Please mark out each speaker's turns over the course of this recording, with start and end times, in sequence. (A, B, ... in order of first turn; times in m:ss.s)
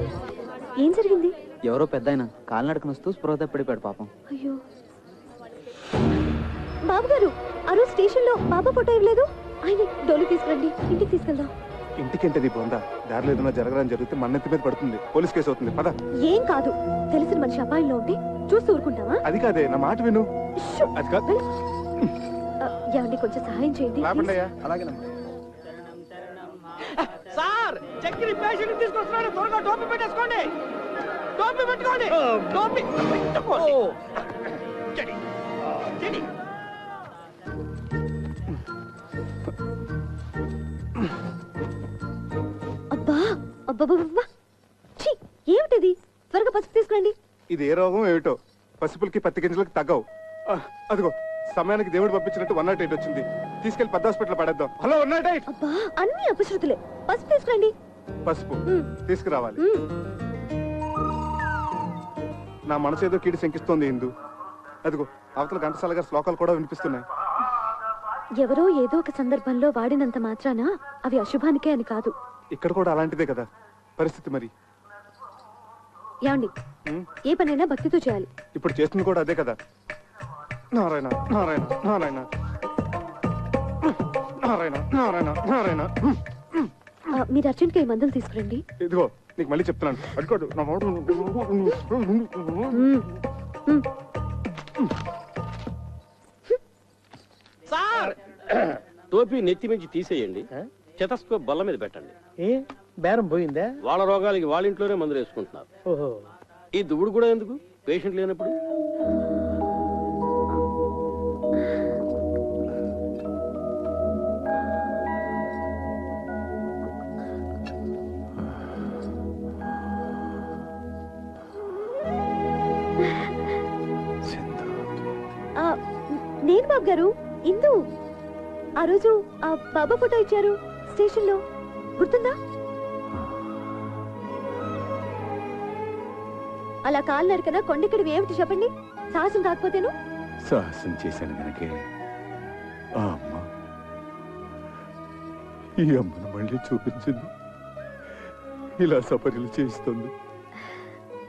0:00.8-0:01.3 A
0:01.6-0:04.1 B
0:04.3-0:04.6 A
0:06.9-0:11.5 A
0:12.0-0:16.0 C
0:16.3-0:19.2 A
0:19.3-0:20.3 C
0:20.6-0:21.4 A
0:21.0-0:21.2 C
0:22.6-0:24.4 A
0:24.0-0:25.0 C
0:27.0-0:30.5 D
0:31.4-0:33.8 D
0:32.1-0:32.6 E
0:33.6-0:34.0 E
0:36.0-0:36.3 D
0:42.9-0:44.3 A
0:45.0-0:47.1 A
0:47.5-0:55.5 C
0:55.5-0:57.7 A
0:58.3-0:59.6 C
0:59.6-0:59.9 A
1:02.7-1:04.1 C
1:04.8-1:07.1 C
1:08.4-1:12.1 A
1:12.5-1:13.4 C
1:14.0-1:14.5 C
1:16.2-1:16.5 A
1:17.2-1:18.3 A
1:18.6-1:19.6 C
1:20.7-1:22.3 C
1:23.8-1:26.7 C
1:27.1-1:28.6 A
1:28.8-1:32.8 C
1:32.7-1:33.1 A
1:37.7-1:38.2 D
1:39.1-1:40.5 D
1:41.0-1:42.1 D
1:42.4-1:43.7 E
1:43.8-1:45.7 D
1:45.9-1:46.2 E
1:46.8-1:48.5 D
2:04.2-2:04.8 F
2:05.6-2:07.8 A
2:08.8-2:11.4 A
2:12.0-2:12.4 A
2:16.9-2:19.9 A
2:20.5-2:21.7 F
2:23.0-2:23.5 F
2:25.8-2:27.3 F
2:28.8-2:30.1 F